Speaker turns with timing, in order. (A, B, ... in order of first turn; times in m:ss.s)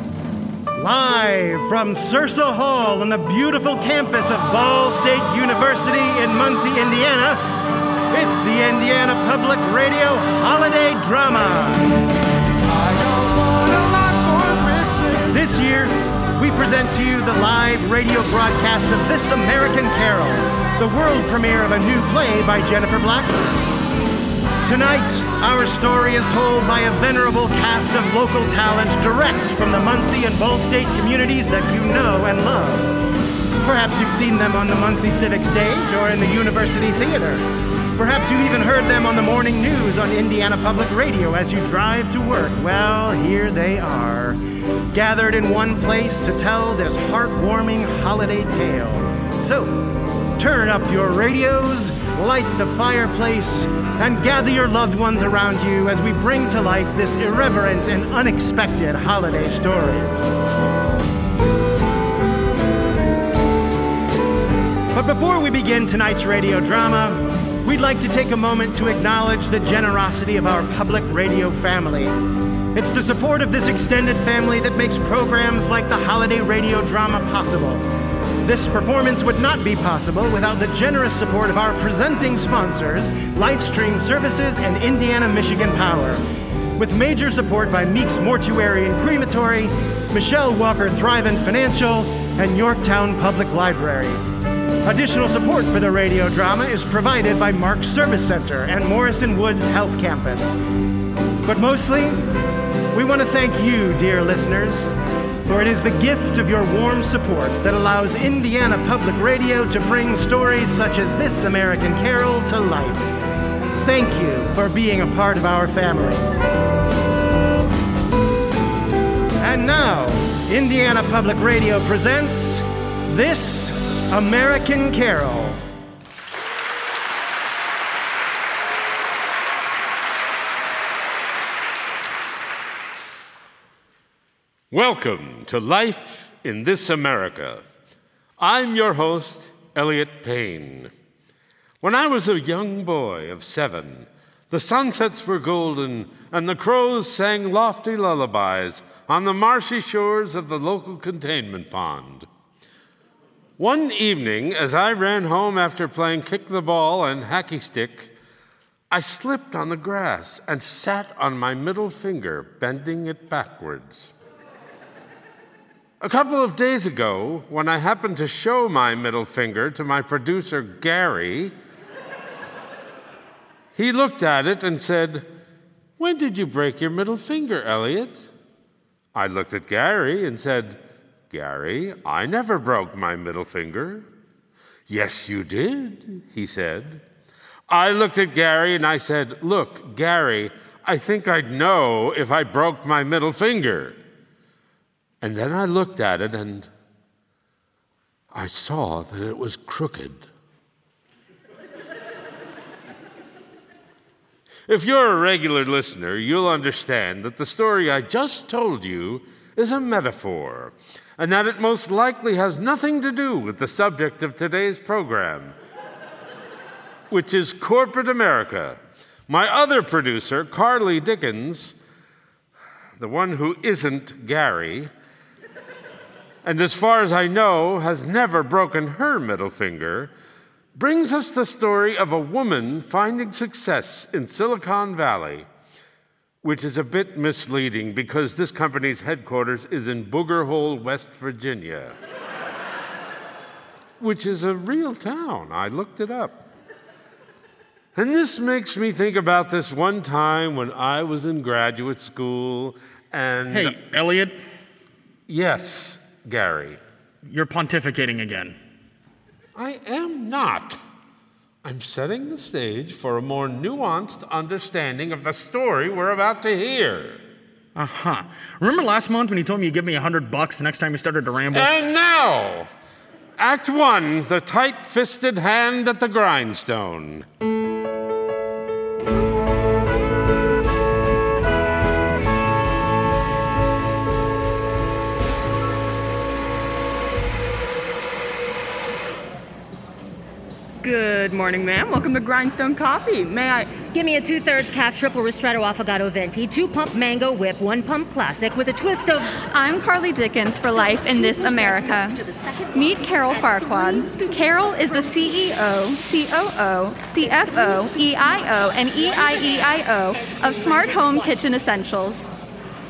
0:00.8-0:07.4 A
0:08.1-0:11.9 A
0:15.3-0:23.5 A
0:24.6-0:33.0 A
0:33.6-0:37.4 A
0:37.9-0:44.4 A
0:44.9-1:00.2 A
1:04.9-1:12.1 A
1:12.7-1:17.8 A
1:18.4-1:26.2 A
1:26.8-1:34.2 A
1:34.8-1:40.6 A
1:41.4-1:42.2 A
1:42.9-1:44.9 A
1:45.5-1:53.1 A
1:53.8-1:56.2 A
1:59.4-2:05.6 A
2:14.7-2:17.6 B
2:18.4-2:20.9 B
2:21.8-2:32.3 B
2:33.6-2:38.1 B
2:38.9-2:44.1 B
2:46.0-2:51.5 B
2:53.7-2:55.2 B
2:56.0-2:58.3 B
2:59.1-3:00.8 B
3:01.3-3:04.0 B
3:04.9-3:07.0 B
3:07.7-3:14.0 B
3:15.2-3:16.7 B
3:18.3-3:20.2 B
3:24.7-3:35.5 B
3:37.1-3:41.7 B
3:43.0-3:44.9 B
3:46.4-3:50.1 B
3:50.7-3:55.5 B
3:56.4-4:01.9 B
4:04.0-4:06.4 B
4:07.9-4:13.8 B
4:13.5-4:14.4 C
4:15.3-4:16.8 B
4:17.2-4:18.6 C
4:19.6-4:20.8 B
4:21.6-4:27.2 B
4:27.7-4:31.7 C
4:31.5-4:32.7 B
4:33.4-4:37.2 B
4:50.8-4:53.8 D
4:53.9-4:59.4 E
4:59.5-5:02.2 F
5:00.8-5:05.5 E
5:02.7-5:12.3 F
5:07.2-5:11.4 E